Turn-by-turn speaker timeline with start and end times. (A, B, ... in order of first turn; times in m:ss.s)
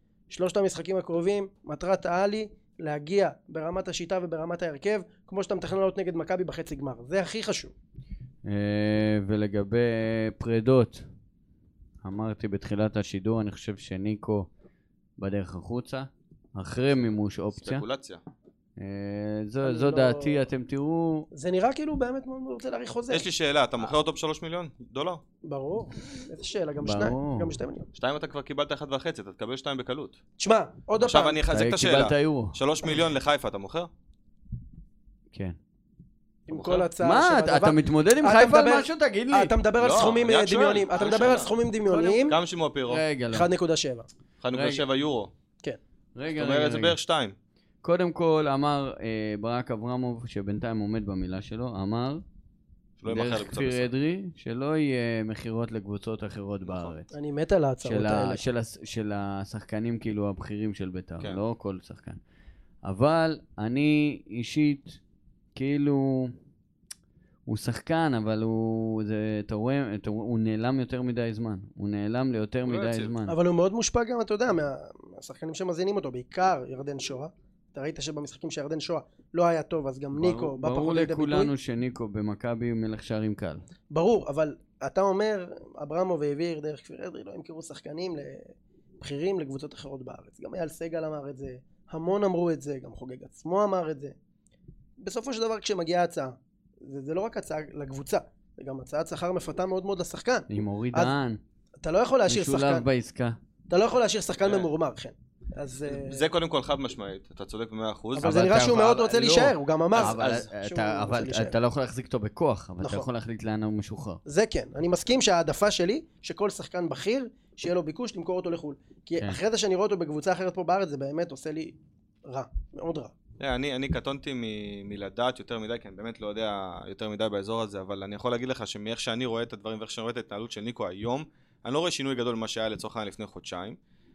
0:00.3-0:07.7 A
0:08.4-0:11.1 B
0:12.0-0:14.5 B
0:15.2-0:17.8 B
0:17.6-0:18.2 C
0:18.8-0:21.3 B
0:19.6-0:20.4 A
0:21.3-0:23.2 A
0:23.1-0:25.2 C
0:25.4-0:27.9 A
0:26.8-0:27.6 B
0:27.9-0:30.2 C
0:30.4-0:31.4 A
0:31.0-0:33.9 C
0:31.5-0:32.6 B
0:36.5-0:42.4 A
0:36.5-0:36.9 C
0:37.0-0:39.5 B
0:39.8-0:43.0 C
0:42.9-0:43.5 B
0:43.3-0:44.1 A
0:44.4-0:45.3 C
0:44.5-0:44.8 B
0:46.1-0:47.0 B
0:46.3-0:47.3 C
0:47.8-0:52.2 B
0:53.0-0:53.9 C
0:53.0-0:57.1 B
0:56.6-0:56.9 C
0:57.1-0:58.4 A
0:57.8-1:02.2 B
1:02.8-1:05.0 B
1:05.5-1:06.3 B
1:07.5-1:13.3 B
1:12.6-1:13.1 C
1:13.3-1:21.5 A
1:20.1-1:23.6 B
1:23.9-1:34.1 A
1:35.0-1:41.1 A
1:40.5-1:41.4 B
1:41.8-1:42.8 A
1:42.3-1:43.4 B
1:43.7-1:46.2 A
1:44.4-1:44.7 C
1:45.9-1:48.6 C
1:48.2-1:51.6 A
1:48.2-1:54.2 B
1:50.0-1:50.4 C
1:52.8-1:53.1 A
1:54.2-2:03.1 A
2:03.4-2:13.8 C